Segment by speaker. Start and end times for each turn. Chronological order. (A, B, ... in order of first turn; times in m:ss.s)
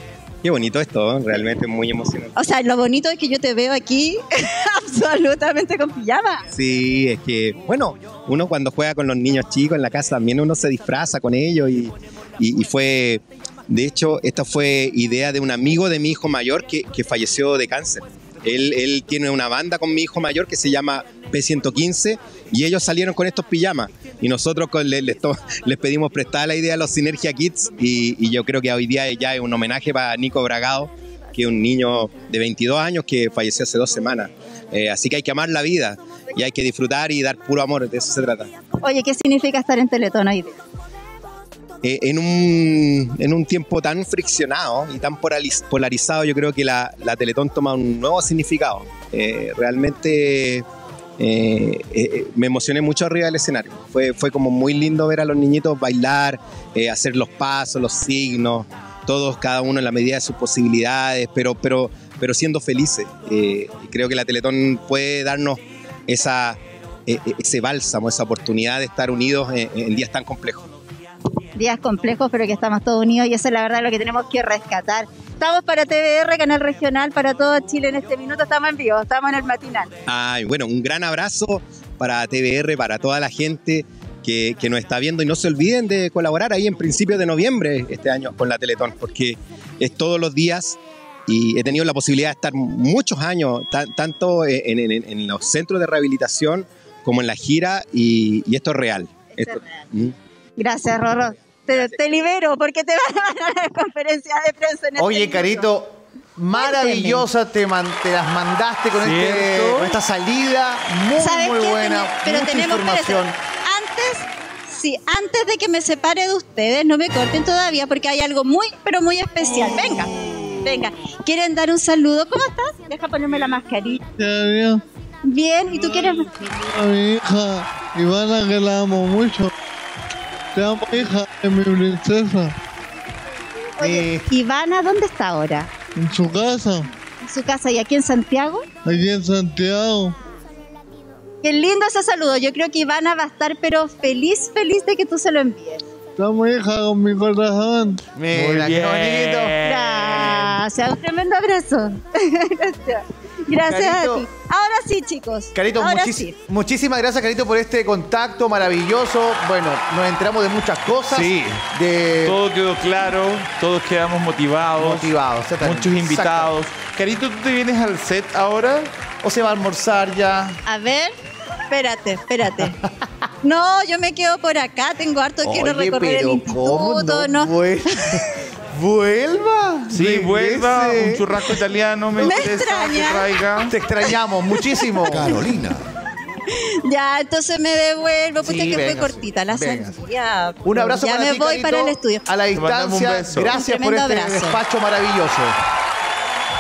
0:00.4-0:02.3 A
0:02.4-0:06.4 B
0:06.5-0:38.5 A
0:38.8-0:40.6 B
0:41.8-0:50.7 A
0:51.2-1:10.7 A
1:11.6-1:19.9 B
1:20.1-1:40.2 A
1:39.3-1:39.6 B
1:40.6-1:45.7 B
1:41.7-1:42.1 A
1:45.0-1:53.4 C
1:46.5-1:47.3 B
1:49.0-1:49.9 D
1:51.2-2:00.1 B
2:00.6-2:04.0 B
2:04.2-2:04.8 E
2:05.2-2:06.3 B
2:06.1-2:09.5 E
2:10.5-2:12.5 E
2:13.8-2:15.7 B
2:13.8-2:14.3 C
2:16.0-2:16.9 E
2:17.2-2:18.7 B
2:18.8-2:20.2 E
2:21.4-2:25.8 B
2:26.2-2:28.0 E
2:28.2-2:29.6 C
2:28.3-2:30.6 D
2:29.6-2:36.3 B
2:33.6-2:34.3 C
2:35.5-2:42.4 C
2:41.1-2:41.6 D
2:42.2-2:48.9 D
2:44.8-2:46.5 C
2:49.2-2:50.6 C
2:50.7-2:51.1 B
2:51.7-2:52.8 B
2:52.6-2:53.1 C
2:53.4-2:57.5 B
2:55.4-3:01.3 C
2:59.9-3:03.7 D
3:02.2-3:03.3 B
3:03.7-3:05.7 C
3:04.6-3:05.0 B
3:05.1-3:05.8 D
3:06.9-3:12.3 B
3:08.4-3:10.0 C
3:10.6-3:15.6 C
3:12.5-3:13.6 D
3:13.5-3:14.6 B